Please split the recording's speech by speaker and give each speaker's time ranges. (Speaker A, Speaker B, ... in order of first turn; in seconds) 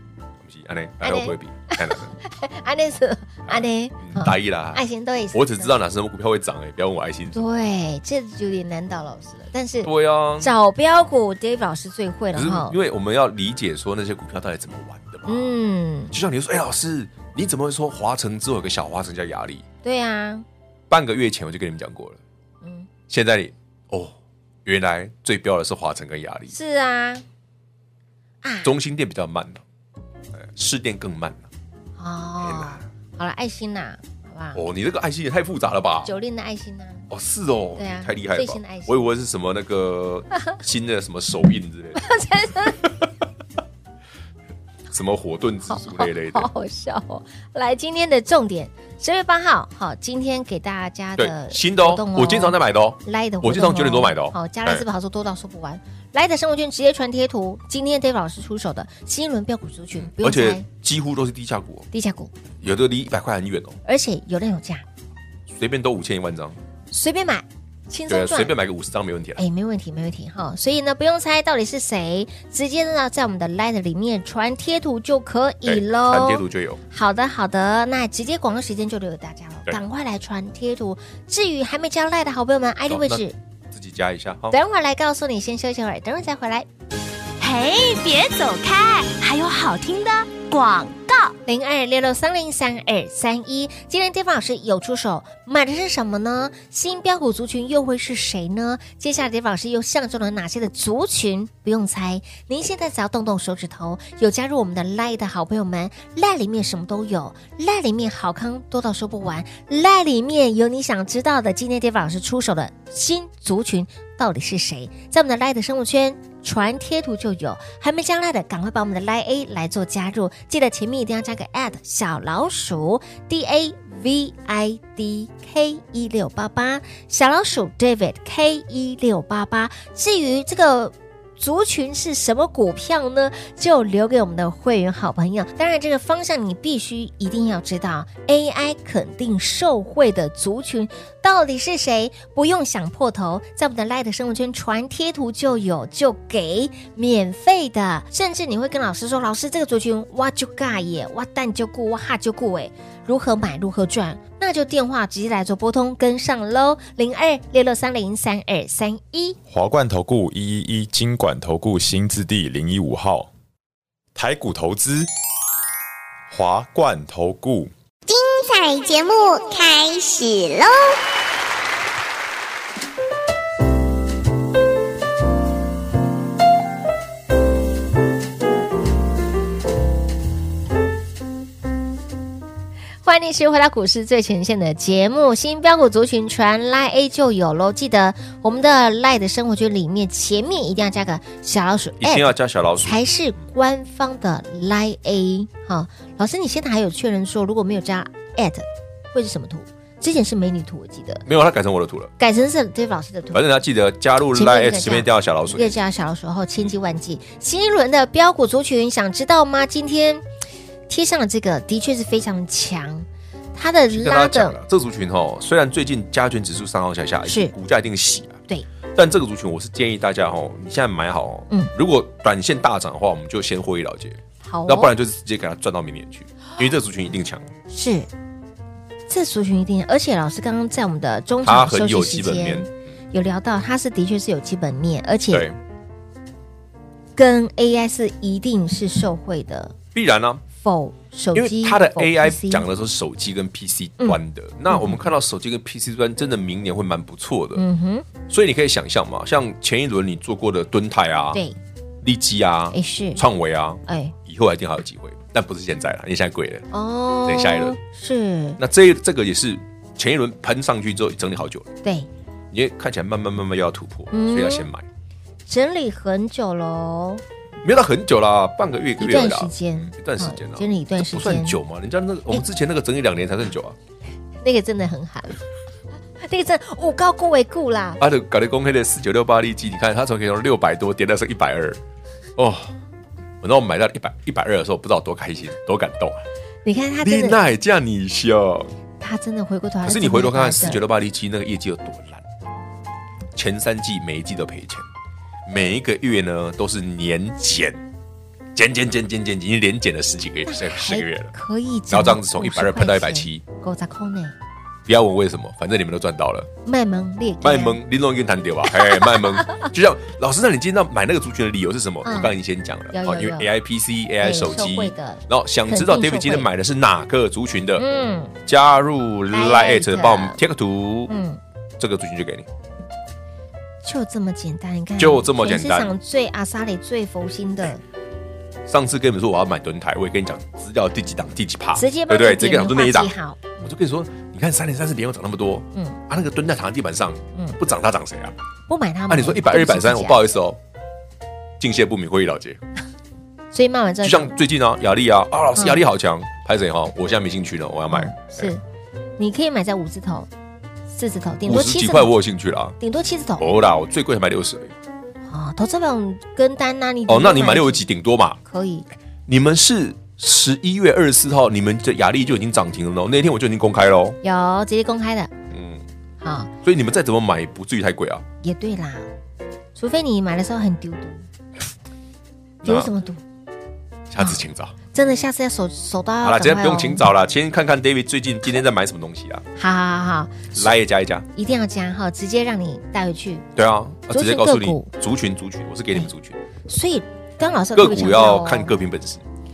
Speaker A: 0.4-2.1, 3.5-7.4, 9.8-10.5, 12.3-15.5, 16.1-19.6, 20.9-22.2, 23.1-24.1, 24.6-26.5, 28.6-29.6, 30.3-31.5, 32.4-32.8, 34.5-36.1, 37.1-42.0, 44.9-46.5, 51.2-54.8, 60.0-61.9, 62.6-63.8, 65.5-66.6, 68.1-69.4, 75.6-76.8, 82.9-84.5, 192.0-193.0, 201.2-202.1, 203.3-205.8, 213.9-218.4, 218.9-227.5, 231.4-232.7, 235.3-235.6, 239.9-240.4, 241.3-247.6, 248.3-251.4, 252.0-256.6, 257.2-257.8, 258.6-261.7, 262.5-264.9, 267.6-273.8, 278.0-281.8, 282.4-282.7, 283.4-286.2, 287.0-288.7, 289.8-292.2, 293.3-294.9, 295.4-297.8, 298.5-301.3, 301.9-303.4, 304.9-306.5, 307.4-317.8, 318.4-321.1, 321.8-322.5, 325.0-325.9, 328.7-338.4, 339.1-340.6, 341.6-342.6, 344.0-348.5, 351.4-352.8, 353.4-354.7, 357.1-358.4, 359.3-364.2, 365.5-365.8, 366.6-368.2, 372.6-372.9, 374.1-374.7, 376.2-379.4, 380.5-381.2, 383.6-386.4, 387.7-389.2
Speaker B: 1.0-5.7, 7.3-12.8, 15.2-16.1, 19.8-20.4, 22.6-22.9, 26.5-27.2, 28.4-28.7, 32.0-34.6, 36.0-37.0, 37.8-39.0, 41.9-42.9, 45.7-60.6, 61.9-62.3, 63.8-64.8, 66.9-68.5, 69.4-83.3, 84.5-86.7, 91.4-159.4, 183.0-201.2, 202.2-203.4, 204.3-210.2, 210.9-214.6, 217.2-217.5, 224.4-224.9, 227.7-228.1, 229.1-235.5, 237.2-239.7, 240.6-242.6, 244.7-245.0, 247.5-248.1, 252.7-253.2, 253.8-254.1, 256.7-258.6, 261.8-262.1, 264.1-264.7, 265.5-267.2, 269.0-271.6, 274.4-275.4, 276.2-278.0, 286.6-287.4, 289.0-290.8, 300.4-304.3, 306.6-307.8, 308.8-309.7, 312.0-312.3, 312.9-313.5, 314.2-316.5, 317.8-318.3, 319.3-320.4, 321.1-321.4, 323.8-327.8, 331.7-333.5, 338.7-340.2, 343.5-344.3, 345.6-345.8, 347.9-348.6, 349.2-350.3, 350.9-352.1, 352.8-353.4, 355.3-357.8, 358.4-358.9, 364.2-365.3, 366.2-366.5, 368.4-369.1, 369.8-371.3, 372.6-373.2, 374.9-377.0, 379.6-380.7, 381.3-383.5, 384.1-384.9, 386.7-388.7
Speaker C: 87.4-91.3
Speaker D: 159.5-163.3, 164.1-165.1, 166.3-167.7
Speaker E: 168.1-171.0